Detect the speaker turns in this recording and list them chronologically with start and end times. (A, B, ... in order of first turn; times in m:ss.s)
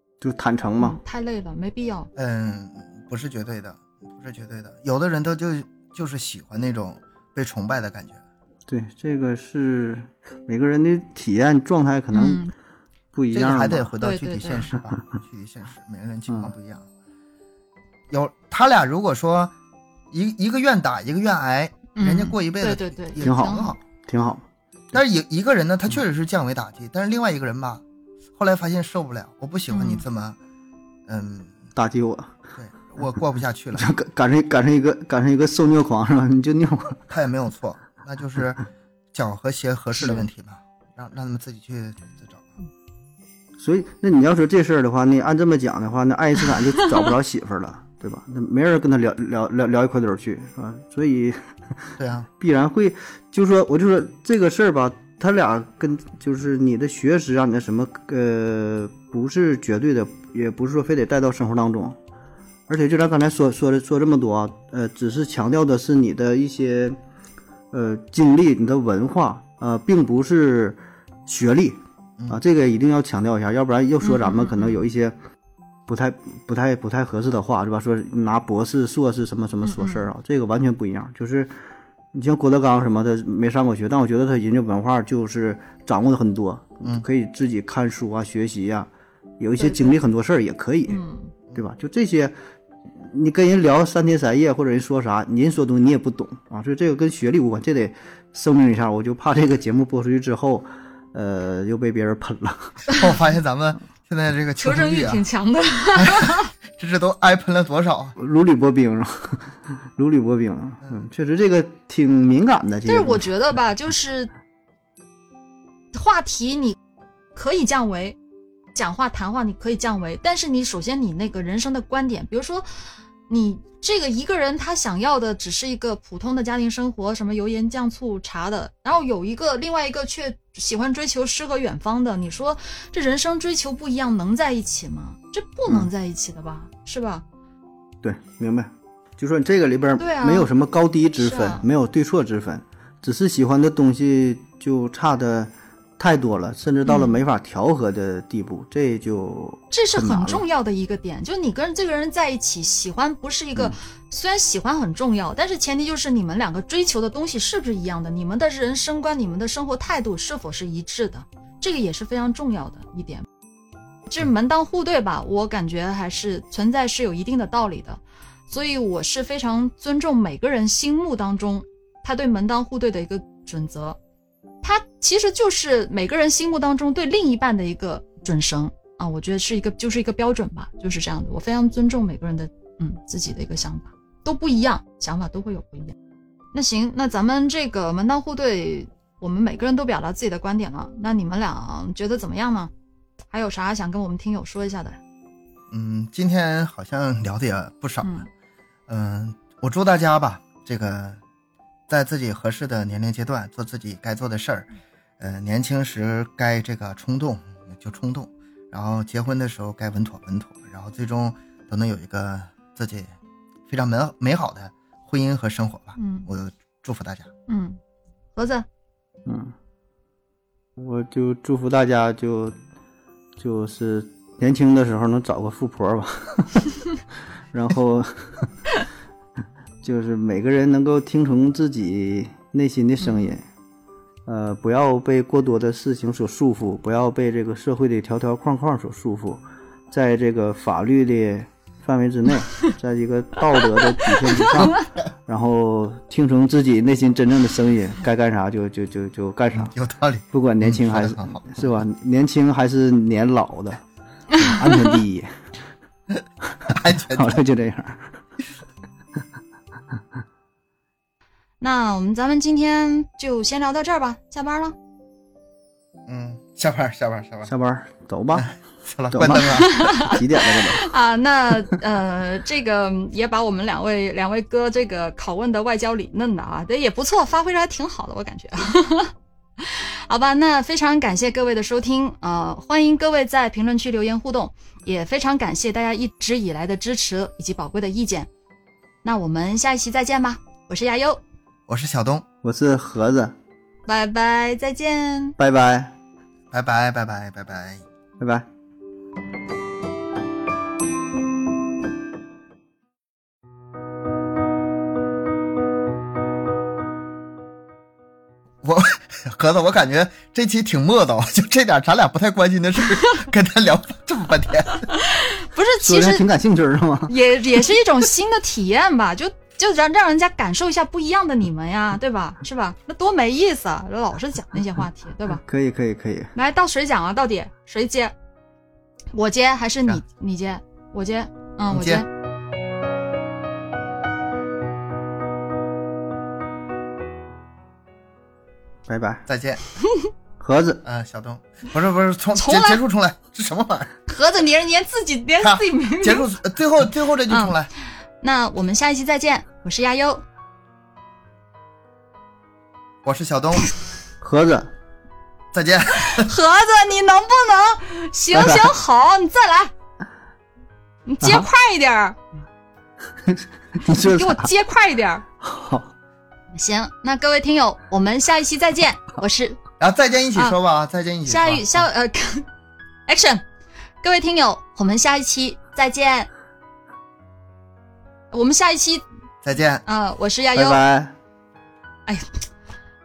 0:00.2-0:01.0 A
0:00.8-0:02.1 B
0:02.2-0:08.2 C
0:08.7-0:12.4 A
0:12.1-0:12.5 B
0:13.1-0:13.9 A
0:13.3-0:16.9 C
0:14.0-0:14.7 B
0:18.1-0:19.5 C
0:20.1-0:23.8 C
0:22.0-0:23.8 B
0:23.2-0:24.4 A
0:24.9-0:27.8 C
0:28.4-0:30.4 C
0:29.7-0:30.0 B
0:31.1-0:31.6 C
0:31.8-0:32.4 A
0:32.6-0:34.0 C
0:33.8-0:37.0 A
0:37.1-0:38.6 C
0:39.1-0:42.5 C
0:43.6-1:02.0 A
0:52.0-0:52.3 C
1:02.7-1:07.0 A
1:07.7-1:15.2 A
1:14.0-1:14.8 B
1:15.9-1:21.6 A
1:19.6-1:20.1 B
1:22.1-1:31.0 A
1:29.6-1:29.9 B
1:30.9-1:31.3 B
1:31.5-1:32.3 A
1:32.9-1:42.9 A
1:43.0-1:45.2 C
1:44.6-1:46.5 B
1:46.0-1:48.2 C
1:48.2-1:53.3 A
1:52.9-1:54.3 B
1:55.9-1:56.8 B
1:57.4-1:58.2 B
1:58.8-2:02.7 B
2:03.3-2:17.2 B
2:18.0-2:30.4 A
2:20.0-2:20.5 B
2:21.2-2:21.6 B
2:26.9-2:27.2 B
2:29.7-2:43.3 B
2:44.1-2:54.0 B
2:54.6-3:06.0 B
3:06.5-3:12.7 B
3:13.3-3:15.0 B
3:15.7-3:18.2 C
3:18.9-3:21.2 C
3:21.9-3:24.7 C
3:25.2-3:33.1 C
3:33.7-3:37.3 C
3:36.0-3:36.3 B
3:37.5-3:37.8 B
3:38.4-3:38.7 B
3:39.2-3:39.5 A
3:40.8-3:42.6 A
3:43.4-3:46.7 A
3:47.5-3:48.5 A
3:49.8-3:53.4 A
3:53.0-3:53.3 B
3:54.3-4:09.7 A
4:04.6-4:04.8 C
4:09.5-4:11.7 C
4:10.3-4:13.8 A
4:14.4-4:15.0 B
4:14.4-4:15.4 A
4:16.7-4:18.2 A
4:16.7-4:17.4 C
4:21.6-4:24.8 B
4:26.1-4:27.5 C
4:27.5-4:28.5 A
4:28.4-4:29.8 C
4:29.1-4:30.8 A
4:29.6-4:48.3 B
4:49.0-4:51.2 B
4:51.7-4:52.2 C
4:52.4-4:53.4 A
4:53.9-4:55.4 B
4:55.4-4:55.9 A
4:56.5-4:57.8 C
4:58.2-4:58.5 A
5:08.6-5:14.9 C
5:14.9-5:16.2 B
5:15.8-5:17.1 A
5:17.1-5:25.4 B
5:25.5-5:26.3 A
5:26.4-5:28.1 B
5:29.1-5:32.1 B
5:31.7-5:32.0 C
5:38.9-5:39.2 A
5:39.3-5:39.6 C
5:40.4-5:40.8 A
5:40.8-5:43.9 C
5:42.4-5:42.8 B
5:44.1-5:46.3 B
5:45.4-5:47.7 C
5:47.3-5:47.6 B
5:48.2-5:50.2 B
5:53.0-5:53.7 C
5:54.2-5:54.7 A
5:55.5-5:56.3 C
5:56.1-5:59.7 B
5:58.3-5:58.7 A
6:01.1-6:02.2 B
6:03.3-6:04.5 A
6:04.0-6:05.2 B
6:05.4-6:05.9 A
6:06.5-6:09.6 B
6:09.8-6:11.9 C
6:11.3-6:12.5 B
6:13.1-6:13.4 B
6:14.0-6:16.3 B
6:18.3-6:19.1 B
6:19.4-6:19.8 C
6:19.8-6:20.8 B
6:20.6-6:21.2 A
6:22.1-6:22.4 B